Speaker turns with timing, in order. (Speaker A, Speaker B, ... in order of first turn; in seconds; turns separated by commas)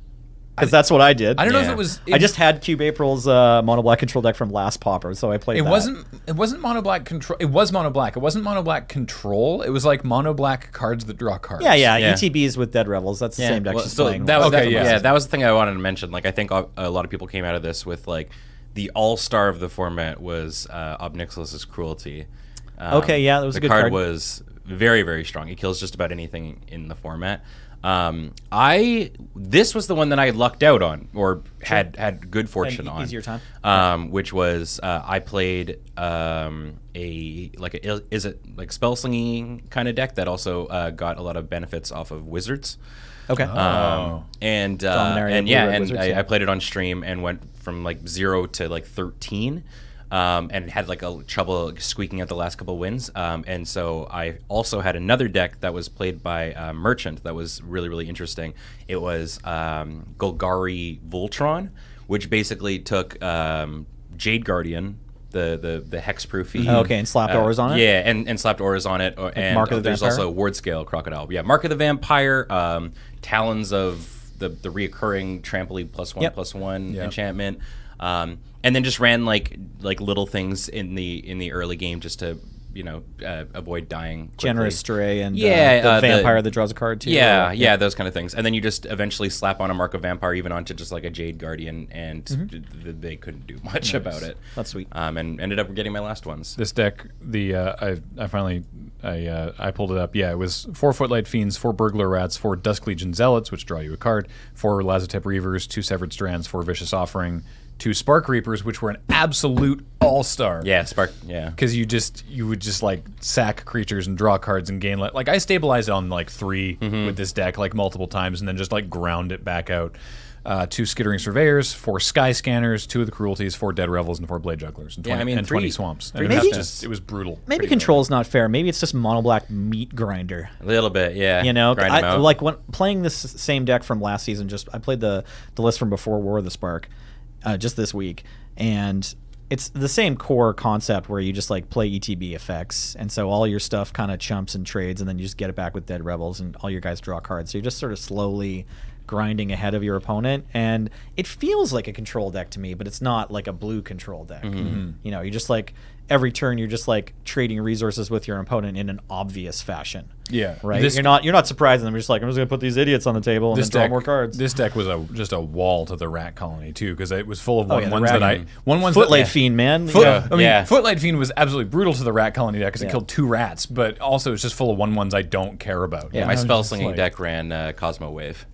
Speaker A: 0.6-5.9, Speaker B: 1.3-2.4, Speaker C: 1.4-1.8, Speaker B: 5.5-11.9, Speaker A: 11.6-15.1, Speaker C: 12.0-12.3, Speaker C: 13.4-22.3, Speaker B: 14.3-15.1, Speaker C: 22.8-42.8, Speaker A: 22.9-24.0, Speaker A: 32.6-33.4, Speaker A: 43.3-43.6, Speaker B: 43.4-44.2, Speaker C: 43.5-86.5, Speaker A: 44.9-46.2, Speaker B: 66.6-66.9, Speaker A: 66.7-67.8, Speaker A: 69.4-70.3, Speaker B: 76.9-77.1, Speaker A: 84.4-87.8, Speaker C: 87.0-94.4, Speaker A: 94.6-94.9, Speaker C: 94.9-96.6, Speaker B: 96.6-110.7, Speaker C: 110.6-111.6, Speaker B: 111.6-127.8, Speaker C: 116.8-117.2, Speaker C: 125.0-126.8, Speaker A: 126.2-126.8, Speaker A: 127.5-130.5, Speaker C: 130.6-132.3, Speaker A: 131.4-136.9, Speaker A: 137.4-164.4, Speaker C: 154.4-154.8, Speaker B: 154.6-154.9, Speaker B: 160.3-161.2, Speaker B: 163.5-177.1, Speaker A: 167.7-170.3, Speaker C: 168.1-168.5, Speaker C: 169.9-170.7, Speaker A: 176.1-176.4, Speaker C: 176.1-178.5